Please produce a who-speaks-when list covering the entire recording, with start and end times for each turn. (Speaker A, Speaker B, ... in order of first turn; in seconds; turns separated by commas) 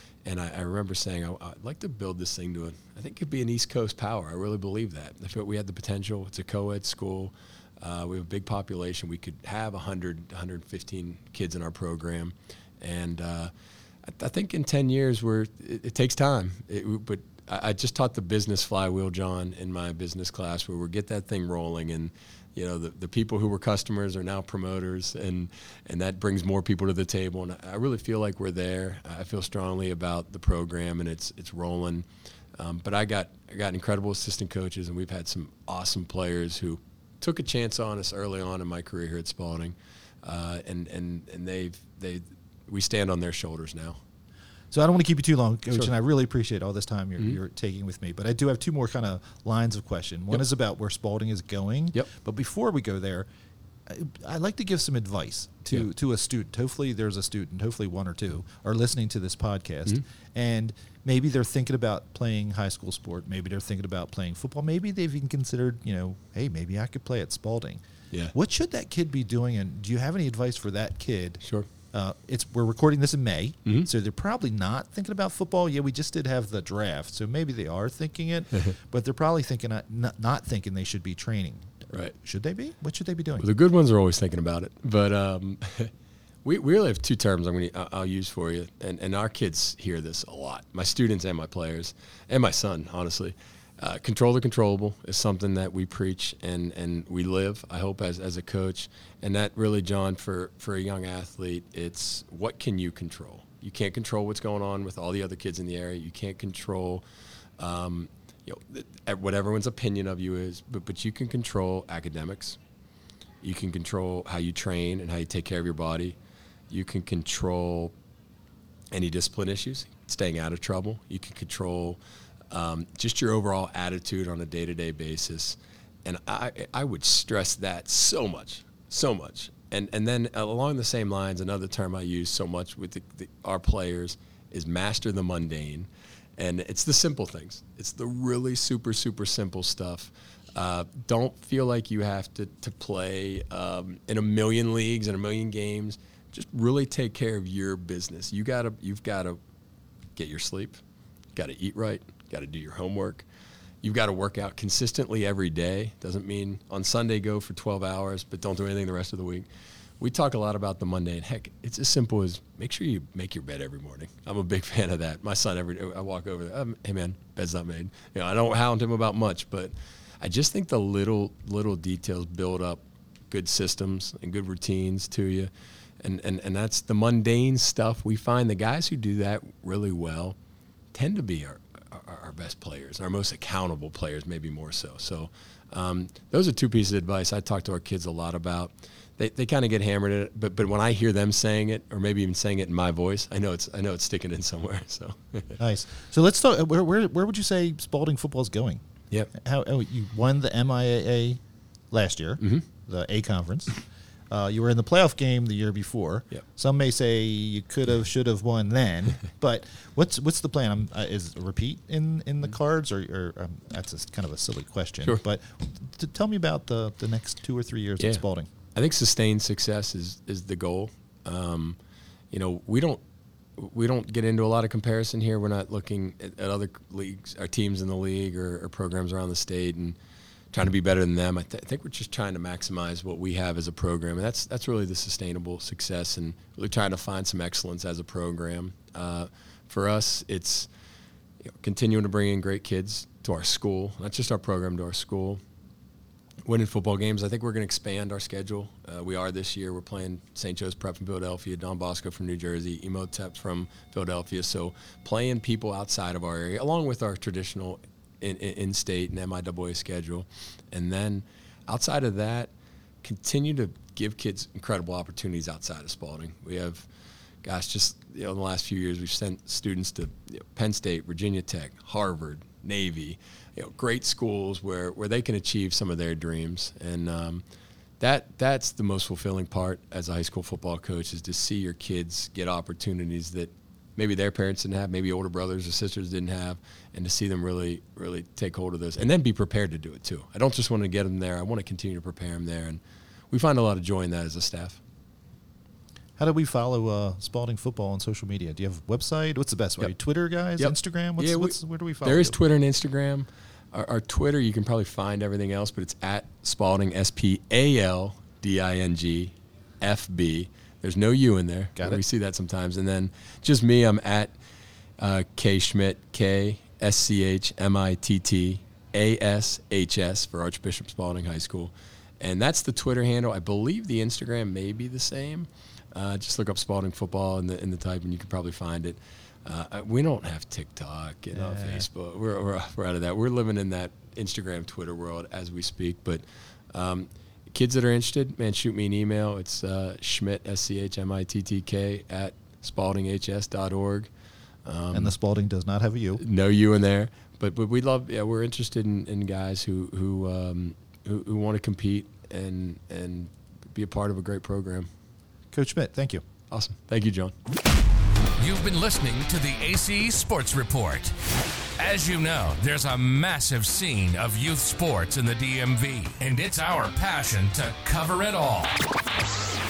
Speaker A: 0.2-13.5, Speaker A: 14.1-32.0, Speaker A: 32.6-44.0, Speaker B: 44.7-53.3, Speaker B: 53.9-67.8, Speaker B: 68.3-71.4, Speaker A: 71.4-71.7, Speaker B: 71.9-83.5, Speaker A: 83.4-85.9, Speaker A: 86.4-107.0, Speaker A: 107.6-112.6, Speaker A: 113.4-116.2, Speaker A: 116.7-117.9, Speaker A: 118.9-122.0, Speaker A: 122.5-149.4, Speaker A: 150.2-150.8, Speaker A: 151.3-153.2, Speaker A: 153.8-159.4, Speaker A: 160.0-175.5, Speaker A: 176.0-180.3, Speaker A: 180.9-195.6, Speaker B: 195.6-201.4, Speaker B: 201.9-203.8, Speaker B: 204.3-218.5, Speaker A: 218.7-221.8, Speaker A: 222.3-223.0, Speaker A: 223.6-229.9, Speaker A: 230.5-240.7, Speaker A: 241.6-245.4, Speaker A: 246.4-262.5, Speaker A: 263.0-266.9, Speaker A: 267.4-277.4, Speaker A: 278.0-294.8, Speaker B: 296.2-302.4, Speaker A: 300.6-314.4, Speaker B: 311.8-312.0, Speaker A: 315.0-344.1, Speaker B: 331.3-331.9, Speaker A: 344.6-345.2, Speaker B: 344.9-346.2, Speaker A: 346.2-354.9, Speaker B: 355.5-356.2, Speaker A: 356.5-357.3, Speaker C: 358.4-361.1, Speaker C: 361.8-368.7